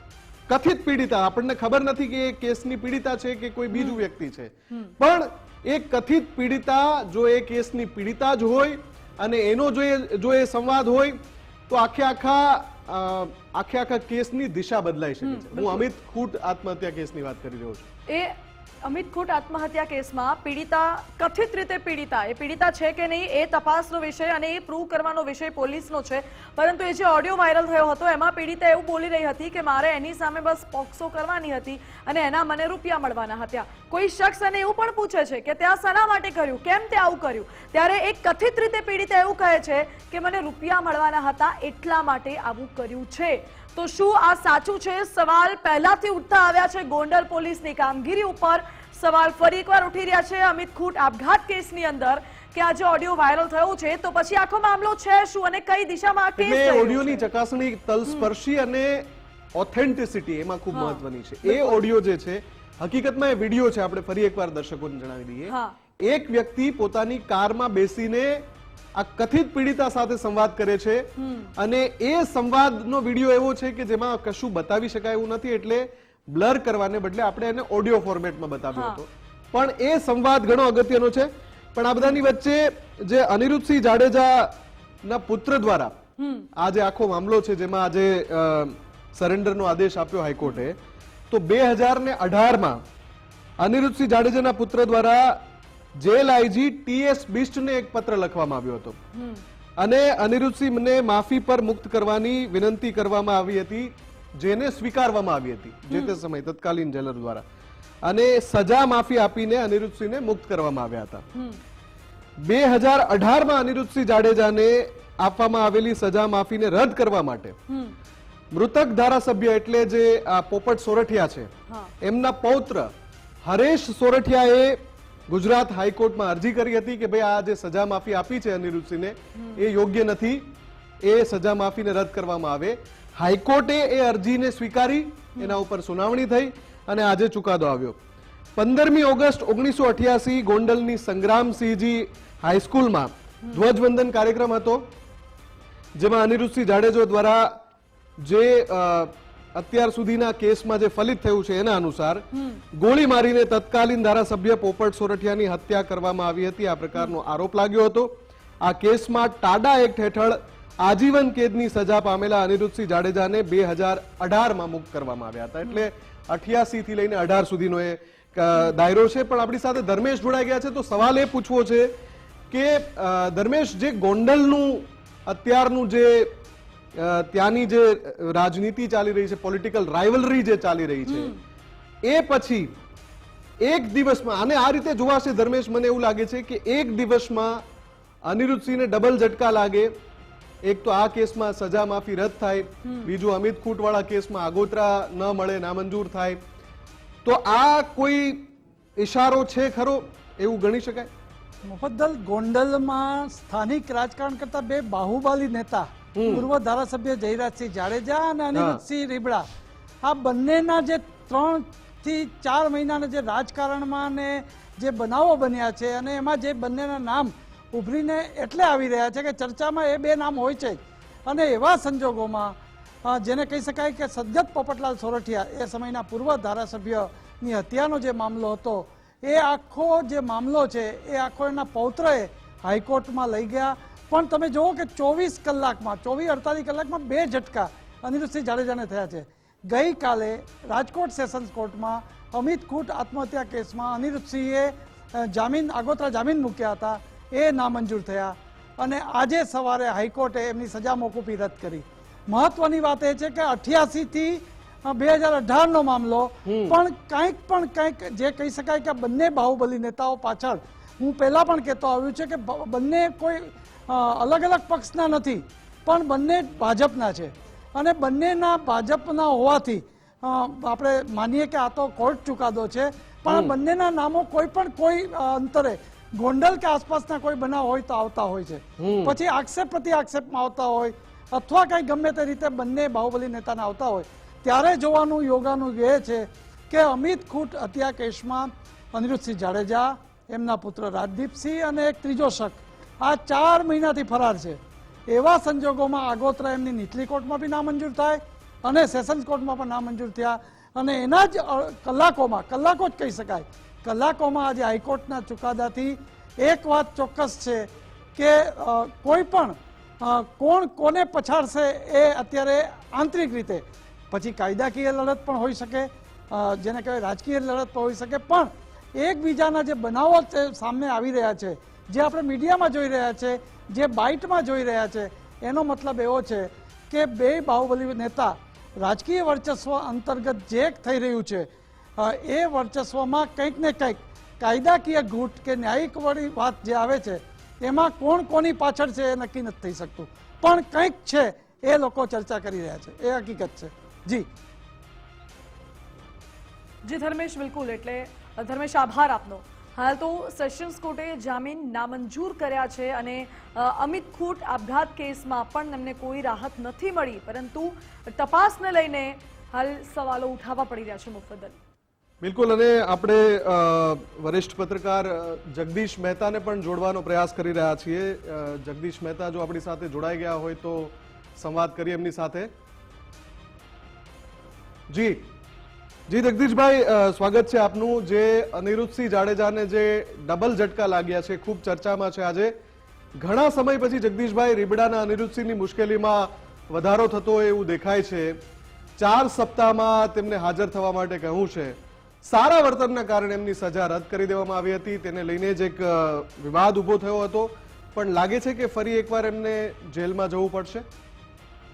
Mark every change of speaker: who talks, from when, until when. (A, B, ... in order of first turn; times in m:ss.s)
0:00.5-0:17.9 A
0:03.7-0:04.0 B
0:15.2-0:15.9 B
0:18.1-0:57.3 B
0:56.4-1:08.4 A
1:00.7-1:01.8 B
1:05.4-1:05.8 B
1:09.0-1:24.5 A
1:11.2-1:11.5 B
1:18.7-1:19.0 B
1:25.0-1:26.0 A
1:26.2-1:26.5 B
1:26.6-1:30.8 A
1:30.4-1:30.7 B
1:31.3-1:32.8 A
1:33.6-1:35.4 A
1:36.0-1:39.0 A
1:39.2-1:39.4 B
1:39.8-1:47.4 A
1:45.9-1:46.2 B
1:48.0-1:51.2 A
1:52.4-1:57.6 A
1:57.7-1:58.0 B
1:58.5-2:01.5 A
2:01.7-2:01.9 B
2:02.0-2:02.9 A
2:03.4-2:04.8 A
2:05.3-2:10.4 A
2:09.4-2:09.7 B
2:11.0-2:18.0 A
2:15.4-2:15.6 B
2:18.6-2:24.8 A
2:26.0-2:27.5 A
2:28.2-2:38.1 A
2:38.6-2:51.9 A
2:52.5-2:56.3 A
2:57.0-3:01.3 A
3:01.0-3:01.4 B
3:02.1-3:02.7 A
3:03.6-3:07.6 A
3:08.3-3:09.9 A
3:10.7-3:16.4 A
3:17.2-3:21.1 A
3:21.6-3:29.4 C
3:26.2-3:26.5 A
3:28.5-3:28.8 A
3:30.0-3:42.6 C
3:43.1-4:04.7 C
4:05.2-5:44.3 C
4:16.5-4:16.8 A
4:33.3-4:33.6 A
4:38.8-4:39.2 A
5:46.8-6:01.6 B
6:02.2-6:12.5 A
6:14.9-6:15.2 A
6:16.1-6:22.5 A
6:23.2-6:28.3 A
6:29.0-6:40.8 A